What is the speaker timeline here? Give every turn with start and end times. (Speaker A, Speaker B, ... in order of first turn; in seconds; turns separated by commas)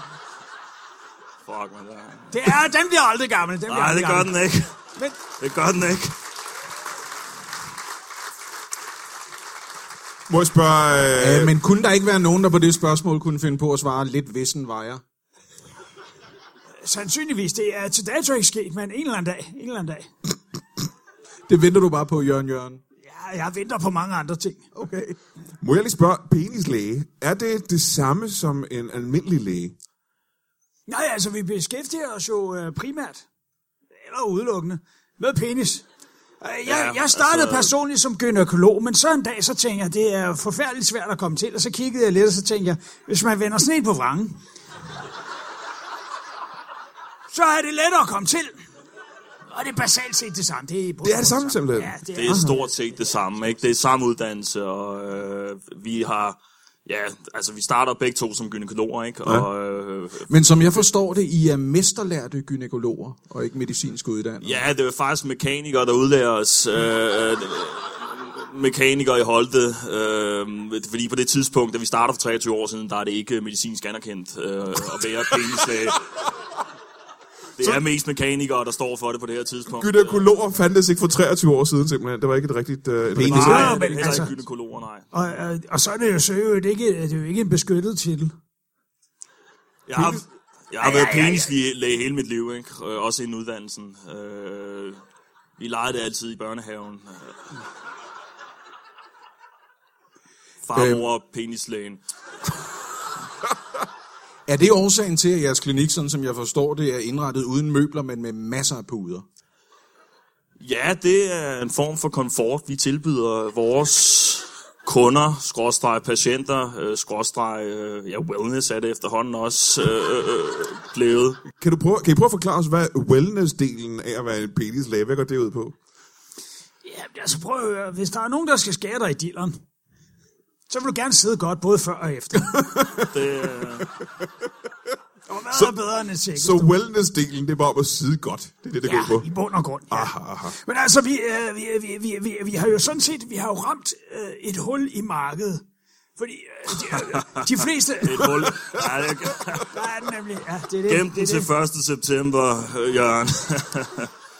Speaker A: 1.4-2.6, Speaker B: 2.3-4.3, Speaker A: 3.7-4.7, Speaker A: 5.3-6.2, Speaker C: 10.3-11.5, Speaker D: 11.2-15.0, Speaker B: 16.8-20.1, Speaker D: 21.5-22.8, Speaker B: 23.0-24.7, Speaker D: 24.7-25.1, Speaker C: 25.6-29.7, Speaker B: 30.9-33.2, Speaker B: 34.0-35.9, Speaker B: 36.4-44.4, Speaker A: 36.6-37.7, Speaker B: 47.3-48.6, Speaker B: 49.5-52.6, Speaker C: 51.0-52.5, Speaker A: 52.1-60.3, Speaker D: 60.3-64.6, Speaker A: 64.4-76.0, Speaker A: 77.5-80.2, Speaker C: 79.7-83.8, Speaker A: 83.2-85.1, Speaker B: 83.3-84.3, Speaker B: 85.1-88.3, Speaker A: 89.9-95.0, Speaker C: 90.0-90.2, Speaker B: 90.8-91.5, Speaker A: 95.6-97.5, Speaker A: 100.6-102.0, Speaker D: 100.7-101.0, Speaker D: 104.5-109.2, Speaker A: 110.6-121.4, Speaker C: 121.6-125.8, Speaker B: 126.8-129.6, Speaker B: 130.7-132.7, Speaker C: 132.5-133.5, Speaker A: 133.0-133.9, Speaker B: 135.3-136.7, Speaker C: 135.5-135.8, Speaker C: 136.3-139.3, Speaker B: 138.8-145.6, Speaker C: 139.9-140.6, Speaker B: 146.2-148.6, Speaker A: 148.0-149.7, Speaker B: 149.6-151.5, Speaker A: 150.9-154.1